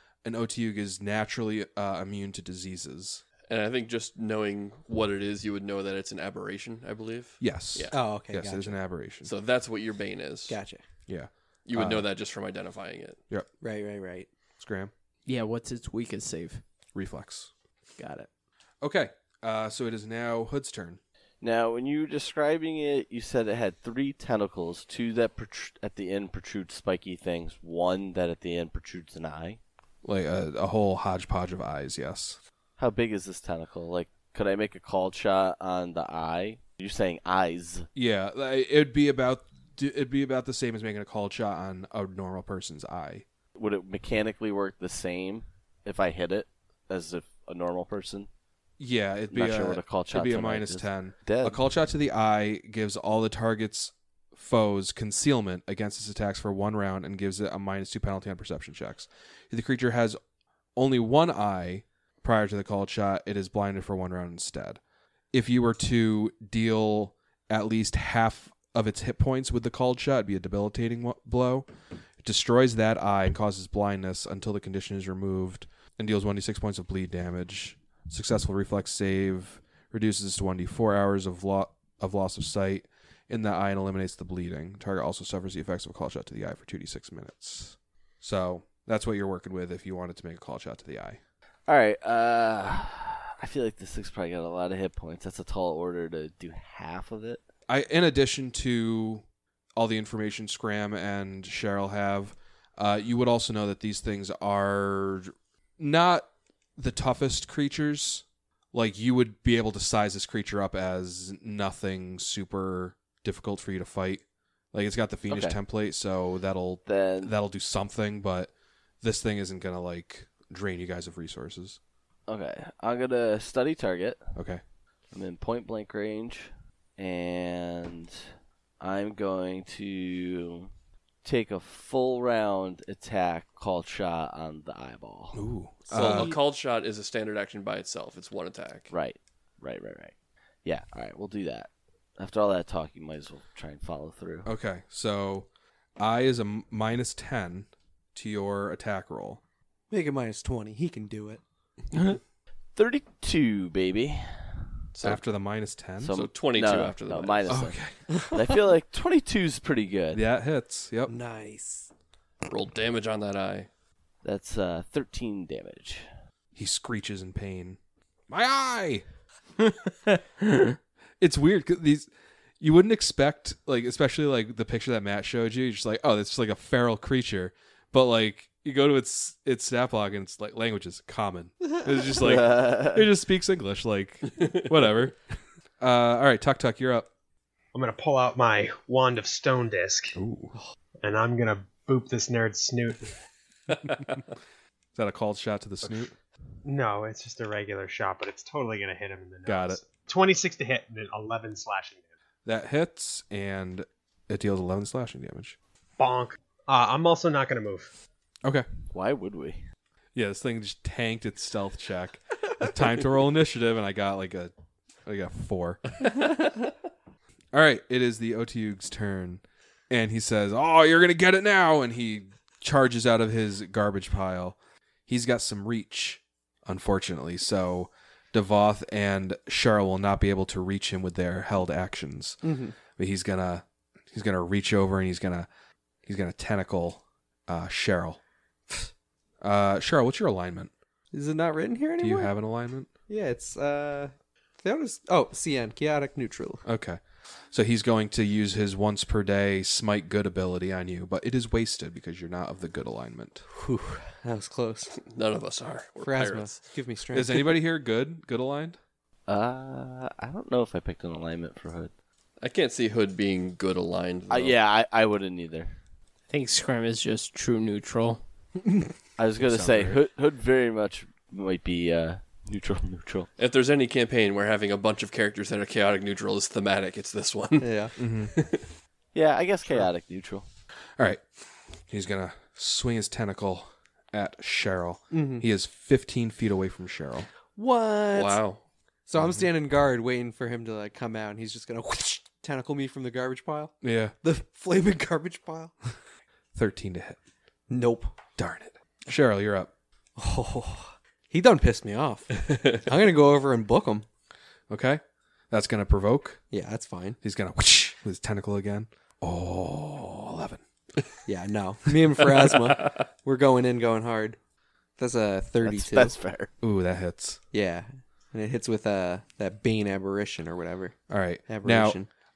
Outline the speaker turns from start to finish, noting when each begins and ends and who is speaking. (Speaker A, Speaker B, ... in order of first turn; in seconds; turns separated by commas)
Speaker A: 0.2-3.2, Speaker B: 3.5-8.0, Speaker A: 7.4-9.3, Speaker C: 7.9-8.8, Speaker B: 9.2-10.6, Speaker C: 10.5-10.8, Speaker A: 11.1-12.1, Speaker B: 11.7-13.2, Speaker C: 13.6-14.3, Speaker A: 14.6-14.9, Speaker D: 15.2-16.6, Speaker A: 16.9-17.5, Speaker D: 18.0-18.3, Speaker A: 18.8-21.0, Speaker E: 21.4-29.6, Speaker A: 30.0-32.4, Speaker E: 32.8-37.9, Speaker A: 37.9-43.2, Speaker E: 43.5-48.3, Speaker A: 48.8-60.2, Speaker E: 49.3-51.6, Speaker A: 60.8-64.8, Speaker A: 65.3-71.7, Speaker A: 72.2-91.2, Speaker E: 91.7-97.4, Speaker A: 97.7-99.2, Speaker A: 99.8-121.8, Speaker E: 115.3-115.6, Speaker E: 116.8-117.3, Speaker E: 122.3-124.2, Speaker A: 124.3-124.6, Speaker E: 125.1-128.2, Speaker E: 128.8-130.7, Speaker E: 131.2-135.4, Speaker A: 135.3-136.3, Speaker B: 135.9-138.9, Speaker E: 138.9-140.1, Speaker E: 140.6-144.5, Speaker A: 144.4-145.5, Speaker A: 146.0-149.4, Speaker C: 149.9-151.4, Speaker E: 152.8-154.6, Speaker B: 154.9-155.2, Speaker A: 155.0-156.2, Speaker E: 156.0-157.8, Speaker B: 156.1-157.7, Speaker A: 157.5-157.9, Speaker C: 158.2-158.5, Speaker E: 158.3-160.2, Speaker A: 160.1-161.1, Speaker C: 161.1-161.9, Speaker B: 162.4-163.7, Speaker E: 164.2-166.1, Speaker A: 166.5-169.0, Speaker A: 171.2-172.1, Speaker A: 172.6-185.2, Speaker E: 182.1-183.1, Speaker A: 185.8-187.1, Speaker F: 187.7-190.2, Speaker A: 190.2-190.5, Speaker F: 191.0-193.1, Speaker B: 193.7-194.2, Speaker A: 194.9-196.1, Speaker F: 196.6-202.0, Speaker A: 199.4-199.8, Speaker A: 202.4-205.6, Speaker F: 206.0-207.9, Speaker E: 208.9-209.6, Speaker A: 210.1-214.5, Speaker A: 215.0-215.8, Speaker A: 217.5-235.5, Speaker C: 232.4-232.7, Speaker A: 236.1-238.2, Speaker A: 239.4-240.7, Speaker C: 241.1-242.3, Speaker A: 242.0-242.9, Speaker C: 243.1-246.6, Speaker A: 246.6-253.4, Speaker C: 253.5-254.9, Speaker B: 255.0-256.6, Speaker C: 256.0-257.5, Speaker A: 257.1-258.8, Speaker E: 259.3-261.9, Speaker B: 262.4-264.6, Speaker E: 264.3-265.7, Speaker D: 266.3-268.2, Speaker E: 269.2-273.3, Speaker A: 269.4-270.0, Speaker B: 273.4-278.7, Speaker C: 277.6-277.9, Speaker A: 278.0-278.3, Speaker E: 279.1-280.4, Speaker A: 281.0-287.3, Speaker C: 285.1-285.4, Speaker C: 287.5-288.4, Speaker B: 288.1-288.6, Speaker C: 289.1-295.7, Speaker A: 289.2-289.4, Speaker A: 293.8-294.1, Speaker A: 296.5-297.2, Speaker C: 297.7-298.1, Speaker A: 298.4-299.7, Speaker C: 300.1-304.0, Speaker A: 304.7-306.4, Speaker C: 306.5-307.2, Speaker A: 307.2-310.6, Speaker C: 311.2-314.4, Speaker C: 315.0-316.2, Speaker E: 315.6-316.5, Speaker A: 316.6-317.4, Speaker C: 317.5-322.1, Speaker A: 321.1-322.0